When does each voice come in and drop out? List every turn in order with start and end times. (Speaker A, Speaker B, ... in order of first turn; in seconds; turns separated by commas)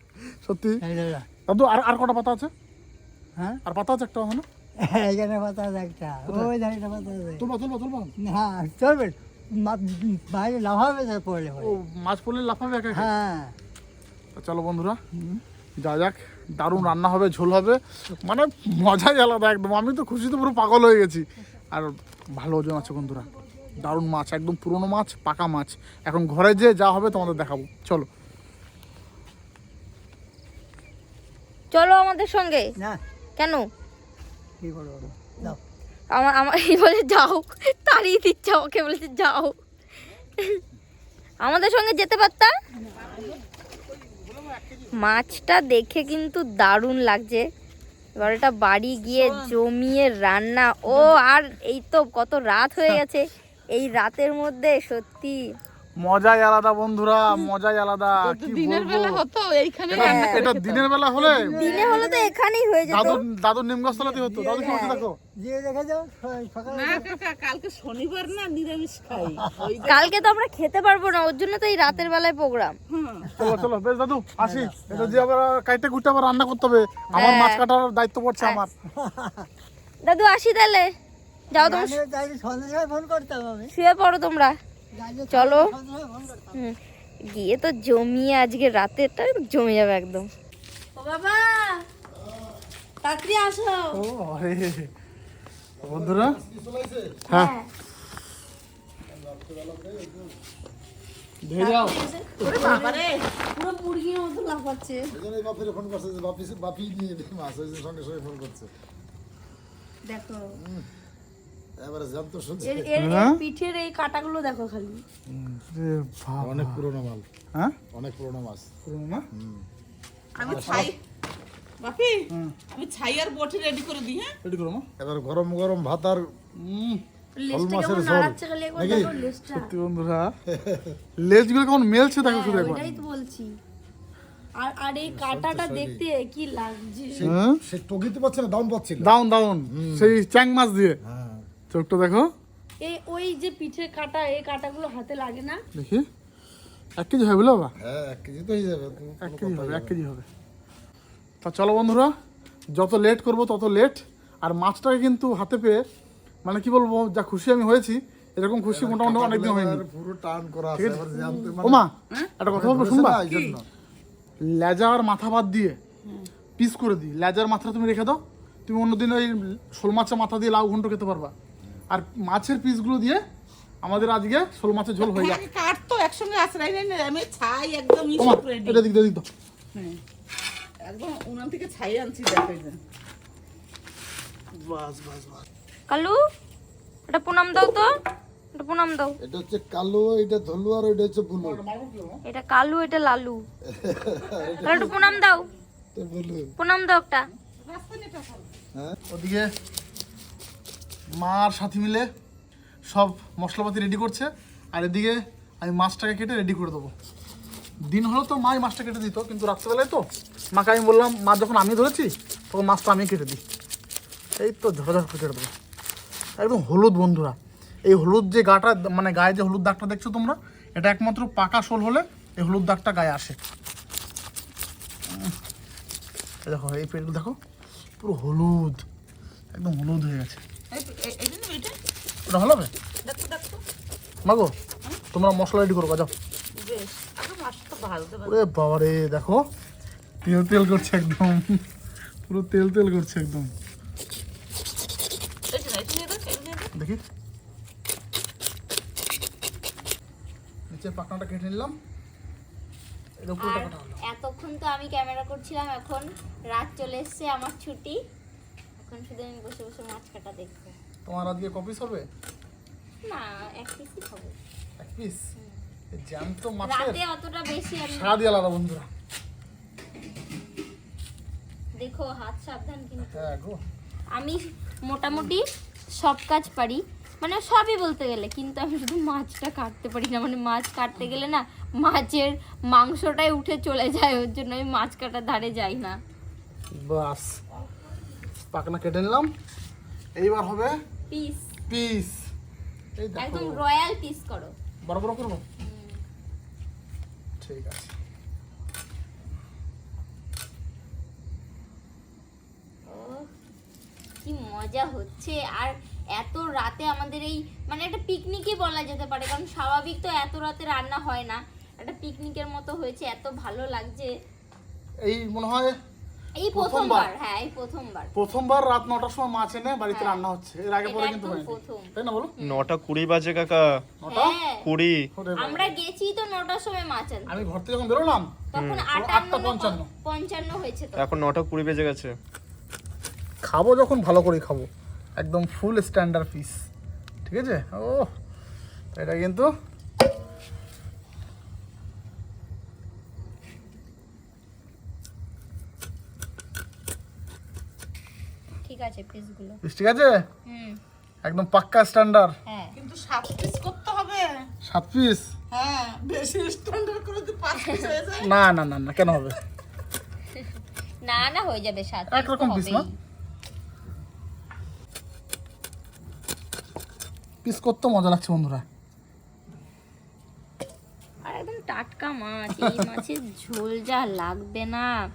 Speaker A: 0.4-0.8, Speaker B: 0.8-1.3, Speaker A: 1.5-2.5, Speaker A: 3.7-4.5, Speaker B: 4.8-7.5, Speaker A: 7.4-8.1, Speaker B: 8.2-11.8, Speaker A: 11.6-13.1, Speaker B: 12.9-13.5, Speaker A: 14.4-28.1, Speaker C: 31.7-32.7, Speaker C: 33.4-33.6, Speaker B: 34.6-35.6, Speaker C: 36.1-39.5, Speaker C: 41.4-42.5, Speaker A: 43.0-45.4, Speaker C: 45.0-47.4, Speaker C: 48.2-55.4, Speaker A: 49.1-49.5, Speaker A: 56.0-59.2, Speaker D: 58.2-60.9, Speaker A: 59.9-62.0, Speaker C: 59.9-60.5, Speaker B: 61.2-62.3, Speaker C: 61.6-63.2, Speaker A: 62.9-65.2, Speaker B: 62.9-63.2, Speaker B: 63.9-67.1, Speaker C: 64.6-65.0, Speaker D: 66.7-70.1, Speaker C: 69.8-72.8, Speaker D: 72.9-73.3, Speaker A: 73.4-78.7, Speaker B: 74.4-75.2, Speaker C: 77.2-77.6, Speaker B: 79.0-79.5, Speaker C: 80.0-80.9, Speaker C: 81.5-82.0, Speaker B: 81.5-83.7, Speaker C: 83.7-84.5, Speaker B: 85.0-86.6, Speaker C: 85.3-85.7, Speaker C: 87.3-90.3, Speaker E: 91.0-91.8, Speaker F: 92.1-92.6, Speaker E: 93.0-94.0, Speaker A: 93.9-94.9, Speaker F: 95.8-97.2, Speaker A: 95.8-96.4, Speaker E: 97.3-97.7, Speaker F: 99.1-100.4, Speaker A: 101.4-102.9, Speaker E: 101.6-105.1, Speaker D: 102.4-103.2, Speaker F: 105.1-108.7, Speaker E: 110.1-110.5, Speaker F: 110.6-110.9, Speaker F: 111.8-112.9, Speaker E: 112.6-115.0, Speaker A: 113.0-113.4, Speaker A: 115.7-116.8, Speaker F: 116.4-117.2, Speaker F: 117.9-118.7, Speaker A: 118.8-119.2, Speaker F: 119.3-119.7, Speaker D: 120.4-121.0, Speaker F: 120.4-120.9, Speaker A: 120.5-120.9, Speaker D: 121.8-124.3, Speaker A: 124.5-124.9, Speaker F: 125.0-126.3, Speaker A: 126.6-127.0, Speaker E: 127.4-129.7, Speaker F: 127.5-129.1, Speaker A: 129.5-130.3, Speaker F: 130.5-131.0, Speaker A: 131.2-132.9, Speaker E: 132.2-133.5, Speaker F: 132.5-133.0, Speaker E: 134.6-137.3, Speaker F: 135.1-136.0, Speaker F: 137.1-139.1, Speaker A: 137.2-137.6, Speaker A: 139.0-141.0, Speaker F: 139.7-140.2, Speaker F: 141.0-141.5, Speaker A: 141.7-142.3, Speaker E: 142.8-145.6, Speaker A: 145.7-146.1, Speaker A: 147.0-147.7, Speaker F: 147.8-150.0, Speaker A: 149.2-150.2, Speaker A: 151.4-152.1, Speaker A: 152.8-155.8, Speaker A: 156.4-159.8, Speaker F: 158.7-161.8, Speaker A: 160.8-161.1, Speaker E: 161.2-161.5, Speaker A: 161.6-163.2, Speaker F: 162.5-163.7, Speaker D: 163.3-163.6, Speaker A: 164.4-165.8, Speaker A: 166.6-171.3, Speaker A: 171.9-173.2, Speaker A: 173.8-175.4, Speaker D: 175.0-178.9, Speaker A: 178.2-179.3, Speaker D: 179.8-180.0, Speaker D: 180.8-182.8, Speaker A: 184.6-185.3, Speaker C: 185.9-186.2, Speaker C: 187.1-187.9, Speaker C: 188.5-189.1, Speaker F: 189.2-191.6, Speaker A: 191.4-192.2, Speaker C: 192.3-193.4, Speaker F: 193.7-194.8, Speaker C: 194.6-195.5, Speaker F: 195.9-196.5, Speaker C: 196.6-197.3, Speaker D: 197.6-198.6, Speaker A: 199.1-199.5, Speaker A: 201.2-202.1, Speaker A: 202.9-206.9, Speaker A: 207.9-213.4, Speaker A: 214.4-215.5, Speaker A: 216.4-223.4, Speaker A: 225.1-225.3, Speaker A: 226.4-227.4, Speaker A: 228.0-228.8, Speaker A: 229.6-230.4, Speaker D: 230.7-231.8, Speaker A: 232.3-232.7, Speaker D: 233.0-233.6, Speaker A: 234.2-234.5, Speaker A: 235.1-236.1, Speaker D: 236.6-238.4, Speaker A: 238.3-239.4, Speaker A: 240.2-241.6, Speaker A: 242.3-243.5, Speaker D: 245.5-246.7, Speaker A: 246.8-247.0, Speaker A: 250.7-251.8, Speaker A: 253.2-254.0, Speaker C: 253.4-258.0, Speaker C: 258.8-260.8, Speaker A: 261.1-262.1, Speaker C: 263.1-264.4, Speaker A: 264.8-265.2, Speaker A: 265.9-267.0, Speaker C: 266.7-268.2, Speaker A: 267.8-268.9, Speaker C: 271.8-273.3, Speaker A: 273.1-273.6, Speaker C: 274.1-275.4, Speaker C: 276.0-286.0, Speaker A: 286.8-287.4, Speaker A: 288.5-289.3, Speaker A: 290.2-290.8, Speaker C: 291.1-291.5, Speaker A: 291.7-292.2, Speaker A: 293.0-293.6, Speaker C: 293.2-294.5, Speaker A: 294.8-295.4, Speaker C: 295.6-296.0, Speaker A: 297.4-297.9, Speaker C: 302.9-303.3, Speaker C: 304.2-314.1, Speaker A: 315.0-315.8, Speaker C: 316.4-318.1, Speaker A: 316.5-317.1, Speaker A: 318.1-322.3, Speaker C: 319.9-320.2, Speaker C: 320.8-322.7, Speaker G: 322.4-323.8, Speaker A: 324.0-324.4, Speaker C: 324.1-324.6, Speaker G: 324.6-325.1, Speaker A: 325.2-325.7, Speaker C: 325.4-327.4, Speaker A: 327.3-328.4, Speaker C: 328.5-331.1, Speaker G: 328.6-328.9, Speaker A: 328.9-329.9, Speaker G: 331.0-332.1, Speaker A: 333.4-336.6, Speaker A: 337.3-338.1, Speaker A: 338.9-339.5, Speaker C: 348.6-349.6, Speaker A: 349.6-350.2, Speaker C: 350.5-350.8, Speaker A: 351.2-352.4, Speaker C: 352.5-352.8, Speaker D: 352.8-354.5, Speaker A: 354.6-355.3, Speaker D: 355.5-358.3, Speaker A: 358.2-359.4, Speaker C: 360.4-362.9, Speaker A: 362.1-362.9, Speaker A: 367.4-368.6, Speaker C: 371.2-374.9, Speaker A: 372.7-372.9